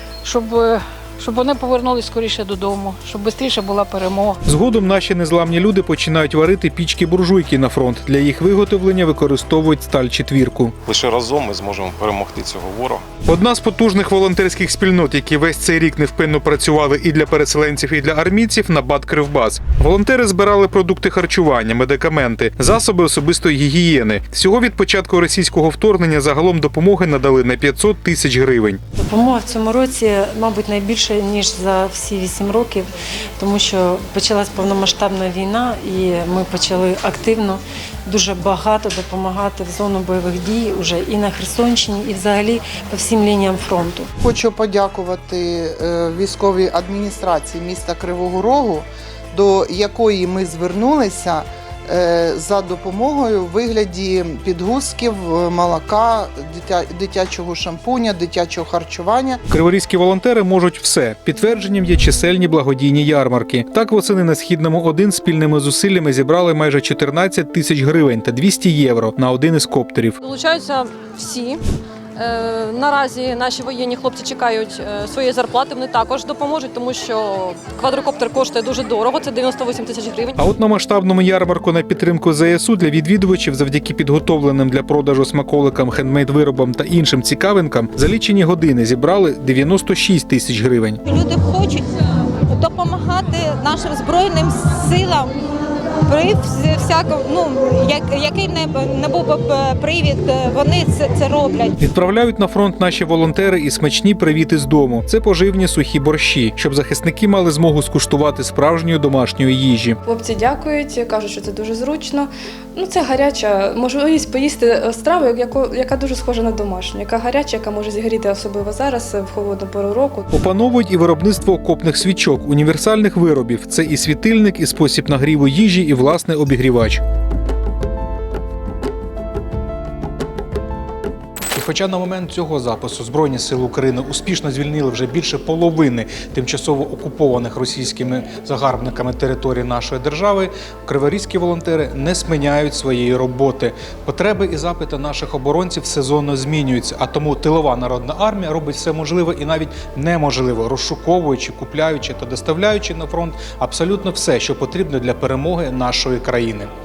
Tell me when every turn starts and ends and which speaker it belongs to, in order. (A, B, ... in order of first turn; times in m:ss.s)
0:00.2-0:04.4 A
0:04.4-0:10.7 B
0:10.8-0:13.0 C
0:13.2-0:28.8 B
0:29.0-0:44.1 D
0:44.2-0:59.4 E
0:59.5-1:10.2 B
1:10.2-1:11.6 F
1:12.2-1:20.4 F
1:20.4-1:31.0 B
1:31.0-1:31.9 G
1:32.5-1:35.5 G
1:36.0-1:41.7 G
1:41.8-1:50.0 B
1:50.1-2:00.2 H
2:00.3-2:07.0 B
2:11.5-2:36.7 B